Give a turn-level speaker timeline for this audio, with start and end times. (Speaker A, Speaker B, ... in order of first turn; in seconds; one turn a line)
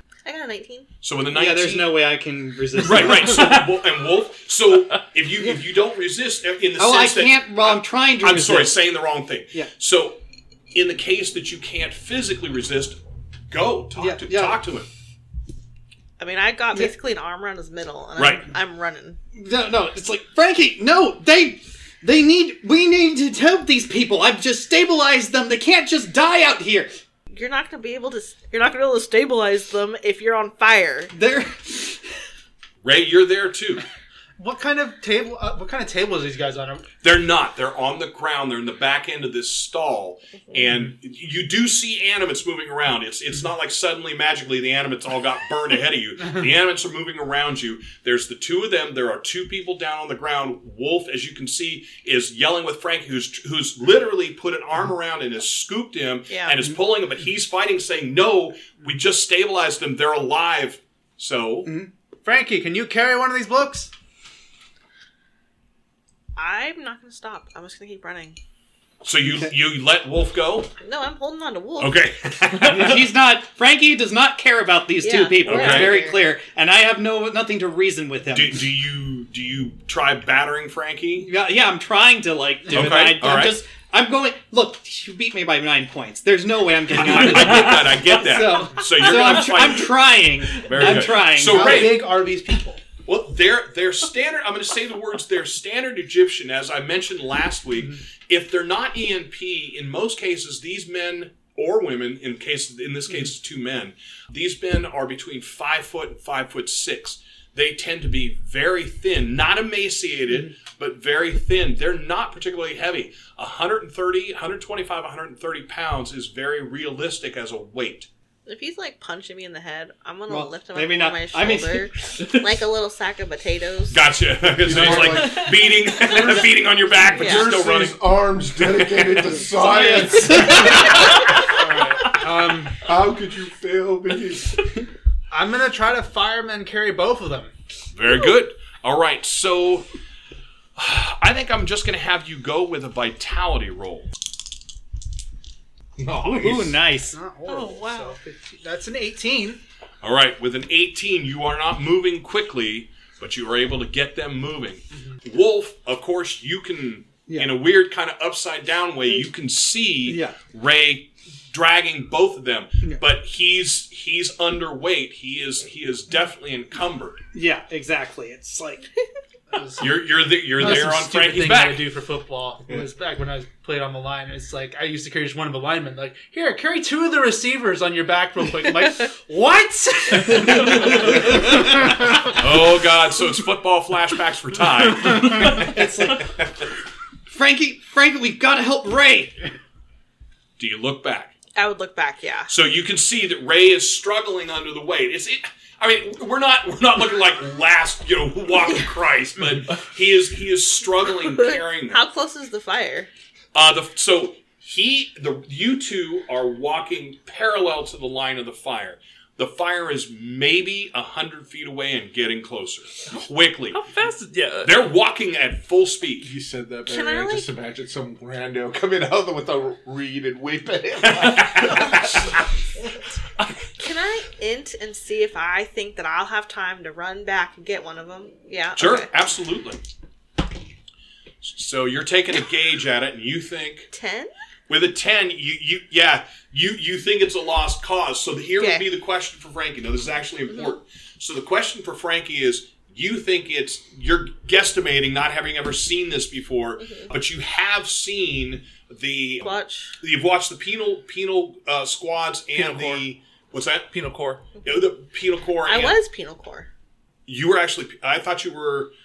Speaker A: 0.2-0.9
Speaker B: 1.0-2.1
Speaker C: 1.3-3.6
Speaker B: 2.8-14.9
Speaker C: 6.8-8.9
Speaker C: 13.9-14.6
Speaker A: 16.2-19.2
Speaker B: 18.2-18.5
Speaker C: 19.3-26.9
Speaker A: 27.3-31.1
Speaker C: 31.1-32.0
Speaker B: 32.8-33.8
Speaker D: 34.4-36.8
Speaker B: 37.0-61.7
Speaker A: 56.3-56.6
Speaker D: 61.6-63.9
Speaker A: 66.3-68.4
Speaker B: 69.0-70.7
Speaker A: 70.8-72.0
Speaker B: 71.8-73.1
Speaker C: 72.6-78.7
Speaker A: 75.0-76.2
Speaker B: 75.4-76.0
Speaker B: 78.3-81.3
Speaker C: 81.2-91.9
Speaker B: 82.7-83.6
Speaker B: 86.9-92.1
Speaker D: 91.4-92.8
Speaker B: 93.0-118.1
Speaker A: 118.5-124.0
Speaker C: 120.3-121.9
Speaker B: 123.9-128.0
Speaker E: 124.6-125.6
Speaker E: 127.0-132.2
Speaker A: 127.2-127.5
Speaker B: 128.6-129.4
Speaker C: 129.6-131.0
Speaker D: 130.2-130.9
Speaker D: 132.0-132.8
Speaker E: 132.8-134.7
Speaker D: 135.3-137.5
Speaker B: 137.9-139.8
Speaker B: 140.8-144.1
Speaker E: 146.0-146.8
Speaker C: 146.1-147.2
Speaker D: 147.1-149.6
Speaker A: 147.5-148.2
Speaker B: 150.0-167.2
Speaker C: 157.3-157.6
Speaker C: 160.0-160.4
Speaker C: 167.3-168.9
Speaker D: 169.5-182.1
Speaker B: 169.8-171.9
Speaker C: 180.3-181.1
Speaker B: 182.2-185.7
Speaker C: 185.4-186.3
Speaker C: 187.3-189.4
Speaker B: 190.6-191.3
Speaker A: 191.6-192.5
Speaker B: 192.5-202.0
Speaker A: 201.2-203.1
Speaker B: 203.5-213.8
Speaker F: 213.7-214.9
Speaker B: 214.6-216.3
Speaker E: 216.2-222.3
Speaker A: 216.8-217.5
Speaker B: 221.0-222.4
Speaker A: 223.8-229.1
Speaker B: 228.8-229.8
Speaker B: 231.4-233.9
Speaker A: 233.9-234.3
Speaker B: 234.7-253.9
Speaker A: 238.6-238.9
Speaker A: 240.5-240.7
Speaker A: 246.8-247.1
Speaker A: 249.4-250.0
Speaker F: 252.5-253.0
Speaker F: 253.9-254.4
Speaker B: 254.6-256.0
Speaker A: 255.6-256.7
Speaker B: 257.2-258.9